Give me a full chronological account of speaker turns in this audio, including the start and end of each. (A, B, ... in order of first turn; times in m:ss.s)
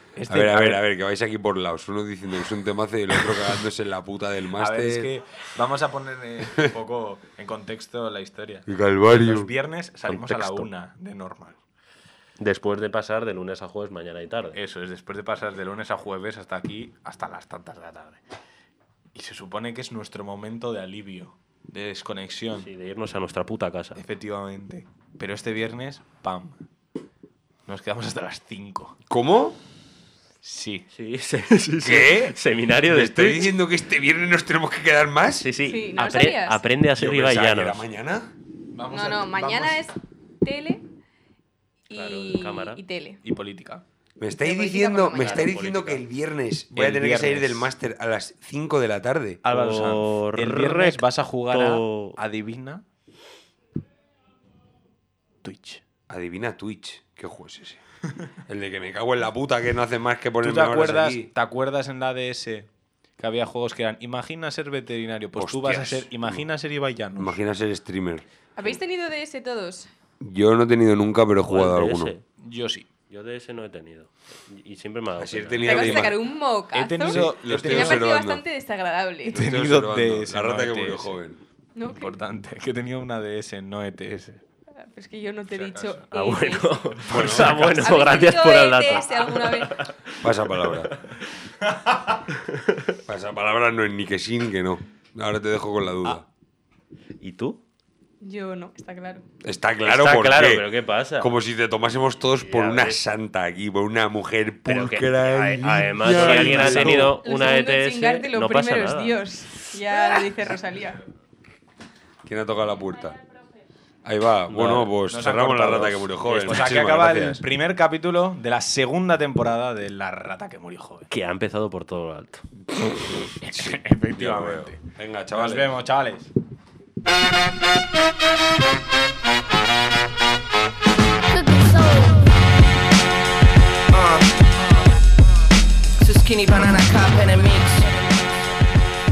0:00.2-0:00.8 A
0:00.3-0:05.1 B
0:04.6-0:11.6 A
0:08.7-0:09.5 B
0:10.1-0:10.7 C
0:12.4-0:14.6 C
0:14.5-0:18.2 A
0:19.1-0:22.7 A
0:22.6-0:24.0 C
0:24.0-0:26.6 A
0:27.7-0:29.0 A
0:29.1-0:29.6 B
0:30.4-0:30.9 A
0:30.9-0:33.6 C
0:31.8-0:35.5 B
0:35.4-0:37.8 C
0:35.6-0:36.7 D
0:36.9-0:38.3 B
0:38.7-0:39.8 A
0:38.9-0:40.8 D
0:41.9-0:43.2 D
0:41.9-0:42.8 C
0:43.2-0:43.8 A
0:44.2-0:49.4 B
0:44.4-0:45.9 D
0:45.2-0:46.0 C
0:46.7-0:47.7 A
0:49.4-0:52.8 A
0:49.5-0:52.2 C
0:55.4-0:55.8 A
0:56.1-0:57.8 B
0:58.4-1:01.3 B
1:00.4-1:07.4 A
1:05.4-1:06.4 B
1:07.2-1:08.2 B
1:08.6-1:09.9 D
1:10.2-1:12.1 B
1:11.5-1:12.2 C
1:12.4-1:12.9 A
1:13.1-1:16.1 C
1:15.2-1:16.2 B
1:15.6-1:19.5 D
1:16.7-1:18.1 A
1:17.0-1:18.4 B
1:19.3-1:21.2 A
1:19.3-1:21.4 B
1:21.7-1:22.2 D
1:21.9-1:24.4 A
1:24.8-1:27.0 D
1:25.5-1:26.1 A
1:26.1-1:31.3 C
1:27.0-1:28.2 A
1:27.1-1:27.7 B
1:27.8-1:29.8 D
1:30.2-1:30.9 B
1:31.8-1:32.1 A
1:32.4-1:33.0 C
1:33.0-1:36.2 B
1:37.2-1:37.6 C
1:38.2-1:39.2 D
1:39.4-1:40.6 B
1:39.8-1:41.3 C
1:41.2-1:47.2 B
1:42.4-1:43.0 C
1:44.6-1:49.2 C
1:46.2-1:47.0 A
1:47.2-1:51.0 D
1:52.2-1:53.2 B
1:54.0-1:57.4 B
1:54.5-1:54.9 C
1:55.1-2:01.1 A
2:01.1-2:02.4 C
2:03.4-2:06.3 A
2:03.5-2:05.7 B
2:13.9-2:15.1 E
2:16.0-2:18.5 E